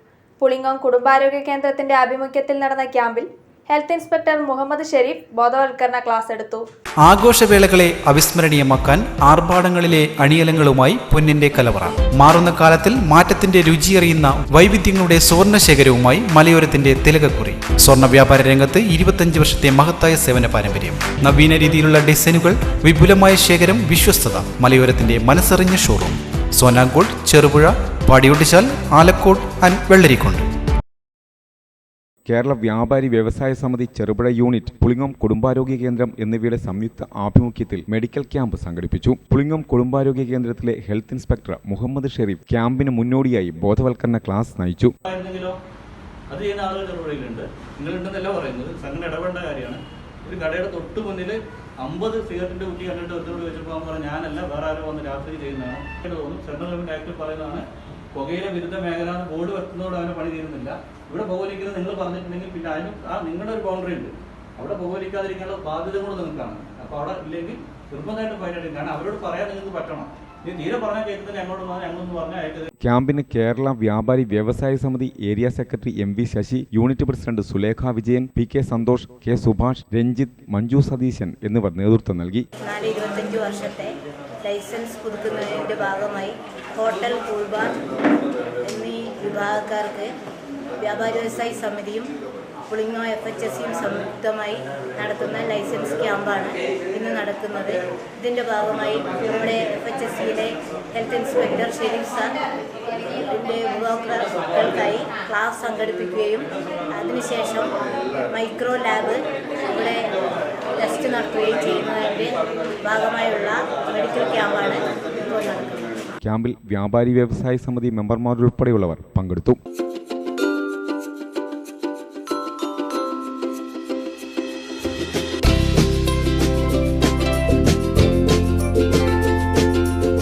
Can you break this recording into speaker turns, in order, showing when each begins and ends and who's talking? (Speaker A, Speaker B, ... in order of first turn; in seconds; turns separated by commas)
Speaker A: 0.4-6.6, Speaker B: 7.0-30.5, Speaker C: 32.3-44.9, Speaker D: 45.1-45.6, Speaker D: 46.3-72.7, Speaker C: 72.8-82.4, Speaker E: 82.6-87.8, Speaker E: 88.6-90.1, Speaker E: 90.8-92.1, Speaker E: 92.7-102.4, Speaker E: 103.0-107.7, Speaker E: 108.3-110.0, Speaker E: 110.8-115.8, Speaker C: 116.2-119.6